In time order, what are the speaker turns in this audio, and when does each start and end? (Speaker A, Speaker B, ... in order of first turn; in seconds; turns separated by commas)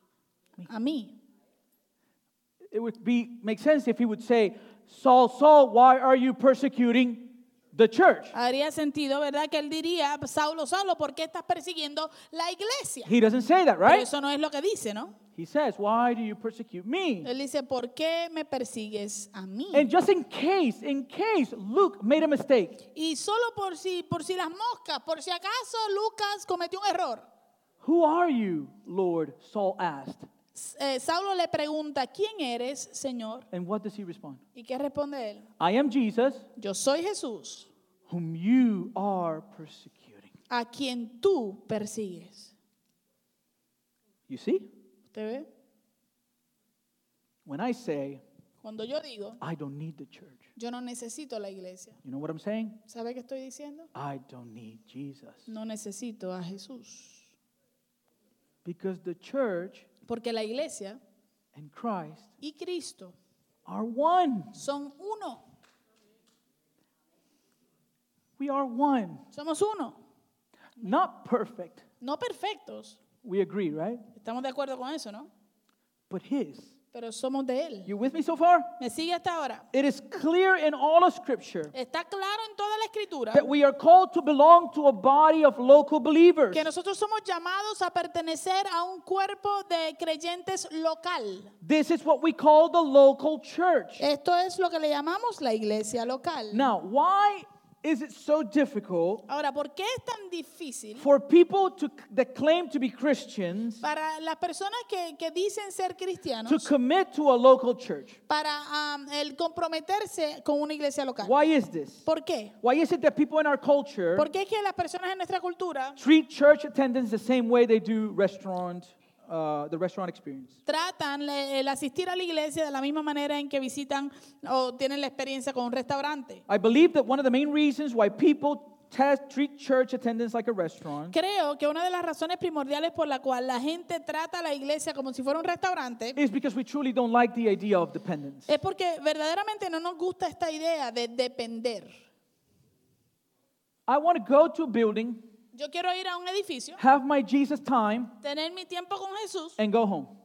Speaker A: 0.7-1.2, Speaker B: 2.7-8.3, Speaker A: 8.3-13.1, Speaker B: 13.1-14.1, Speaker A: 13.9-15.2, Speaker B: 15.4-17.3, Speaker A: 17.2-19.9, Speaker B: 19.7-22.8, Speaker A: 22.9-27.3, Speaker B: 27.8-30.3, Speaker A: 30.6-33.5, Speaker B: 33.5-34.4, Speaker A: 34.5-35.5, Speaker B: 35.6-36.5, Speaker A: 36.6-37.7, Speaker B: 38.1-40.3, Speaker A: 40.5-42.5, Speaker B: 44.3-44.7, Speaker A: 45.1-45.5, Speaker B: 47.5-48.2, Speaker A: 48.6-49.4, Speaker B: 49.4-50.5, Speaker A: 50.6-52.0, Speaker B: 52.0-52.8, Speaker A: 52.9-53.9, Speaker B: 53.9-55.5, Speaker A: 55.5-57.3, Speaker B: 58.6-59.9, Speaker A: 60.1-61.0, Speaker B: 61.5-62.3, Speaker A: 62.4-63.1, Speaker B: 63.7-64.6, Speaker A: 64.5-65.4, Speaker B: 68.4-69.3, Speaker A: 69.3-70.0, Speaker B: 70.8-71.8, Speaker A: 72.0-73.0, Speaker B: 73.2-74.0, Speaker A: 74.2-75.3, Speaker B: 76.1-76.7, Speaker A: 76.9-77.9, Speaker B: 77.9-78.7, Speaker A: 78.8-79.7, Speaker B: 79.7-81.7, Speaker A: 81.7-83.5, Speaker B: 83.3-86.7, Speaker A: 86.5-91.5, Speaker B: 91.6-94.0, Speaker A: 94.0-96.7, Speaker B: 96.5-99.2, Speaker A: 99.3-101.0, Speaker B: 101.0-103.8, Speaker A: 103.8-106.7, Speaker B: 106.5-108.2, Speaker A: 108.3-111.4, Speaker B: 111.2-112.1, Speaker A: 112.0-112.5, Speaker B: 112.6-114.3, Speaker A: 114.2-116.0, Speaker B: 116.0-120.6, Speaker A: 120.7-126.4, Speaker B: 126.5-131.2, Speaker A: 131.1-136.2, Speaker B: 136.2-138.5, Speaker A: 138.5-141.9, Speaker B: 143.9-145.3, Speaker A: 145.5-146.8, Speaker B: 146.8-148.2, Speaker A: 148.2-149.6, Speaker B: 149.6-150.1